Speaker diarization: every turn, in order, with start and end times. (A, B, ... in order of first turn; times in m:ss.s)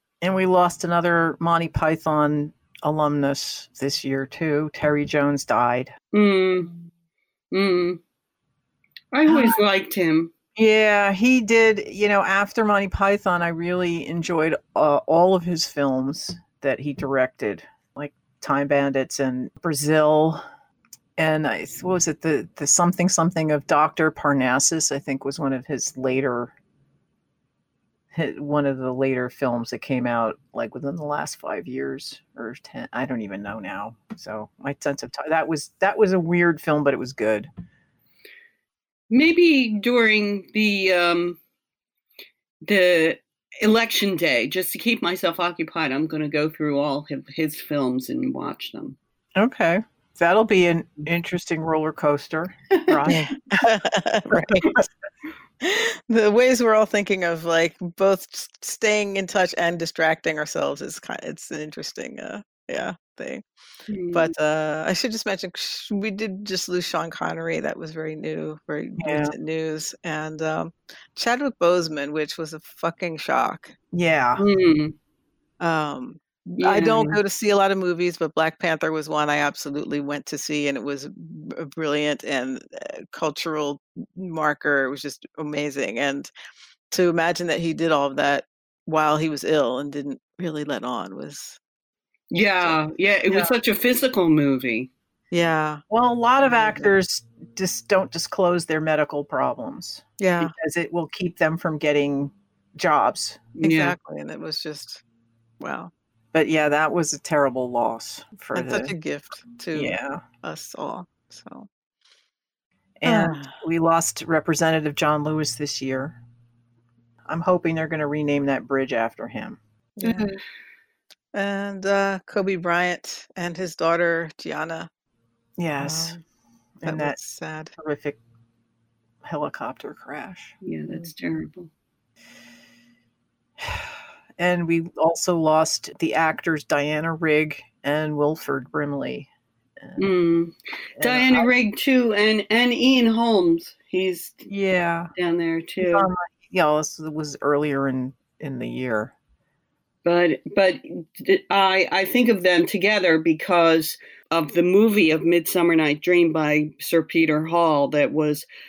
0:00.2-0:05.9 A
0:06.1-0:06.7 B
0:07.5-0:08.0 B
0:09.1-0:10.3 B
0:09.3-0:09.6 A
0:10.6-0:20.4 A
0:21.2-0:26.5 A
0:28.1-0:37.5 A
0:39.1-0:41.4 B
0:42.6-0:49.0 B
0:49.4-0:53.3 A
0:53.1-0:54.7 C
0:54.3-0:54.8 A
0:55.6-1:03.4 C
1:03.9-1:04.3 B
1:04.1-1:13.7 C
1:09.0-1:09.3 A
1:13.9-1:14.4 A
1:14.4-1:14.9 B
1:15.6-1:26.3 C
1:16.6-1:17.2 B
1:26.9-1:31.6 C
1:32.3-1:34.9 B
1:33.3-1:33.5 A
1:35.3-1:35.8 C
1:35.9-1:43.5 A
1:36.5-1:36.9 C
1:40.2-1:40.5 C
1:43.6-1:43.9 B
1:43.6-1:45.0 C
1:45.6-1:45.9 C
1:46.3-1:48.9 A
1:48.5-1:51.7 C
1:49.7-1:50.2 A
1:53.0-1:56.2 A
1:53.0-1:53.5 C
1:57.3-2:00.3 A
2:00.0-2:00.3 C
2:01.3-2:04.9 C
2:05.6-2:06.2 A
2:05.8-2:06.2 C
2:06.8-2:07.2 A
2:06.8-2:07.7 C
2:07.8-2:08.2 A
2:09.2-2:10.5 A
2:10.6-2:11.7 B
2:13.6-2:13.9 A
2:14.4-2:19.3 A
2:19.8-2:20.1 A
2:20.0-2:24.4 B
2:21.0-2:21.5 A
2:24.5-2:25.1 A
2:25.2-2:26.1 B
2:25.8-2:29.1 A
2:30.0-2:38.4 B